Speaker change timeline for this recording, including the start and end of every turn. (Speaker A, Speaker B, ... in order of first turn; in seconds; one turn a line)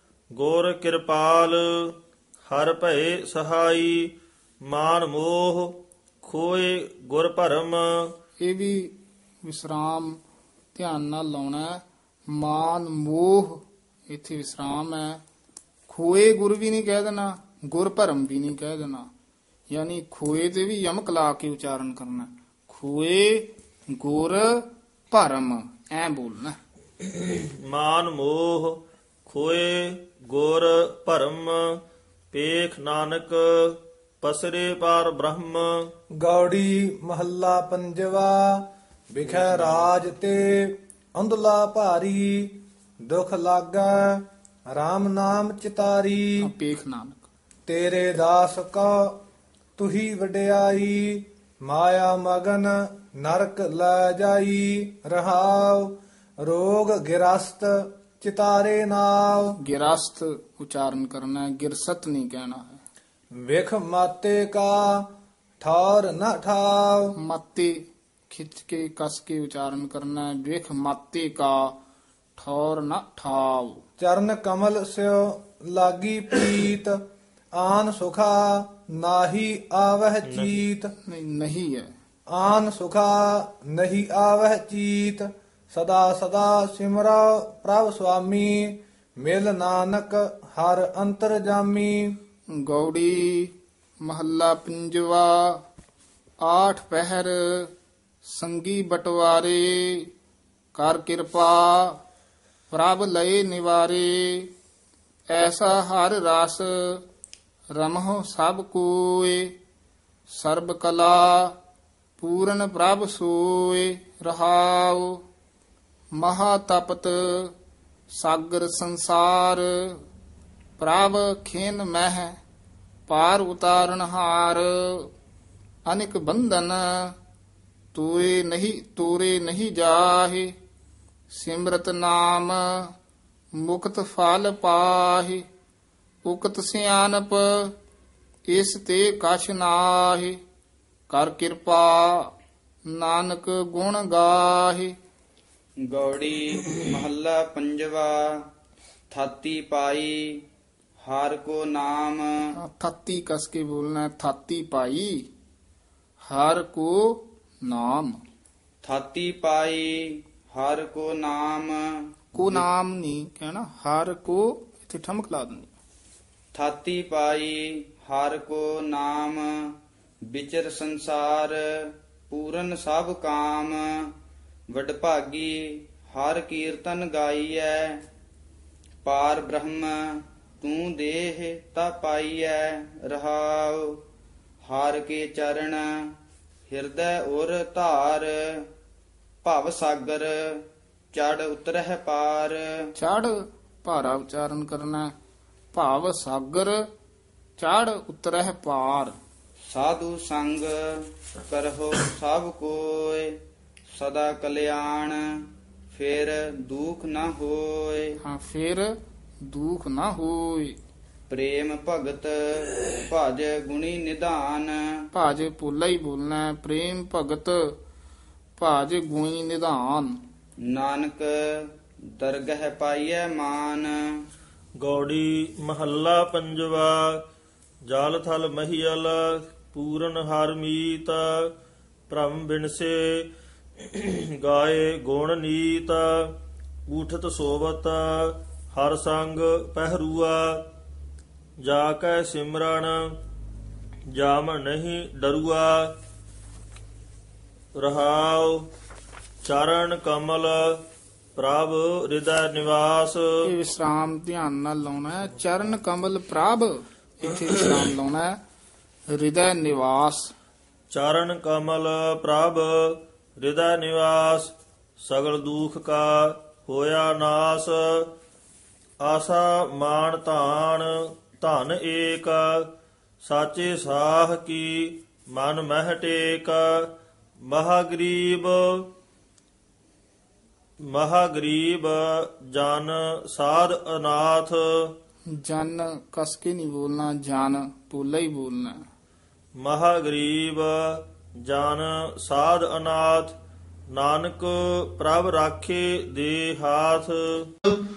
Speaker A: 0.3-8.1
Speaker B: 8.4-10.2
Speaker B: 10.7-15.2
Speaker B: 15.9-19.1
Speaker B: 19.7-26.6
Speaker A: 27.0-35.9
Speaker C: 36.2-46.5
Speaker B: 46.4-47.3
Speaker C: 47.7-49.2
Speaker C: 49.8-59.6
Speaker B: 59.6-62.8
Speaker C: 63.4-65.1
Speaker C: 65.6-67.1
Speaker B: 67.2-71.8
Speaker B: 72.4-73.8
Speaker C: 74.0-77.0
Speaker C: 77.5-80.9
Speaker A: 80.2-80.6
Speaker B: 81.0-81.9
Speaker C: 82.3-92.2
Speaker B: 92.6-93.5
Speaker B: 94.0-95.6
Speaker B: 96.4-97.7
Speaker B: 98.2-100.1
Speaker B: 100.7-102.0
Speaker B: 102.7-104.5
Speaker B: 105.3-107.0
Speaker B: 107.7-109.5
Speaker B: 110.3-111.5
Speaker B: 112.2-115.2
Speaker B: 116.2-117.5
Speaker B: 118.1-120.0
Speaker B: 120.8-122.4
Speaker B: 123.1-125.1
Speaker B: 125.9-127.1
Speaker B: 127.9-130.5
Speaker B: 131.3-132.6
Speaker B: 133.6-135.4
Speaker B: 136.2-137.7
Speaker B: 138.5-140.4
Speaker B: 141.1-142.3
Speaker B: 142.9-144.9
Speaker D: 145.9-148.3
Speaker D: 149.1-150.4
Speaker D: 151.0-152.3
Speaker B: 152.5-155.3
Speaker B: 156.3-158.2
Speaker D: 158.8-161.8
Speaker B: 162.3-165.7
Speaker D: 166.5-169.7
Speaker D: 170.3-174.1
Speaker D: 174.7-178.0
Speaker D: 179.0-184.0
Speaker D: 184.6-185.9
Speaker D: 186.7-188.7
Speaker D: 189.4-192.6
Speaker B: 192.9-195.1
Speaker B: 195.7-196.8
Speaker B: 197.6-199.2
Speaker D: 199.7-203.3
Speaker D: 203.9-205.2
Speaker D: 205.9-208.1
Speaker B: 208.2-210.8
Speaker D: 211.3-214.8
Speaker B: 215.1-217.7
Speaker B: 218.6-220.2
Speaker D: 220.7-221.3
Speaker D: 222.2-223.9
Speaker A: 224.8-227.2
Speaker A: 227.9-231.5
Speaker A: 232.1-236.3
Speaker A: 236.9-240.6
Speaker A: 241.6-243.1
Speaker A: 244.1-245.9
Speaker A: 247.8-248.7
Speaker A: 249.4-250.8
Speaker A: 251.3-253.2
Speaker B: 253.4-258.4
Speaker B: 259.1-260.3
Speaker A: 260.9-268.1
Speaker A: 269.0-272.7
Speaker A: 273.2-276.9
Speaker A: 277.4-278.9
Speaker A: 280.9-284.9
Speaker B: 285.4-288.8
Speaker A: 289.6-293.4
Speaker A: 293.9-297.5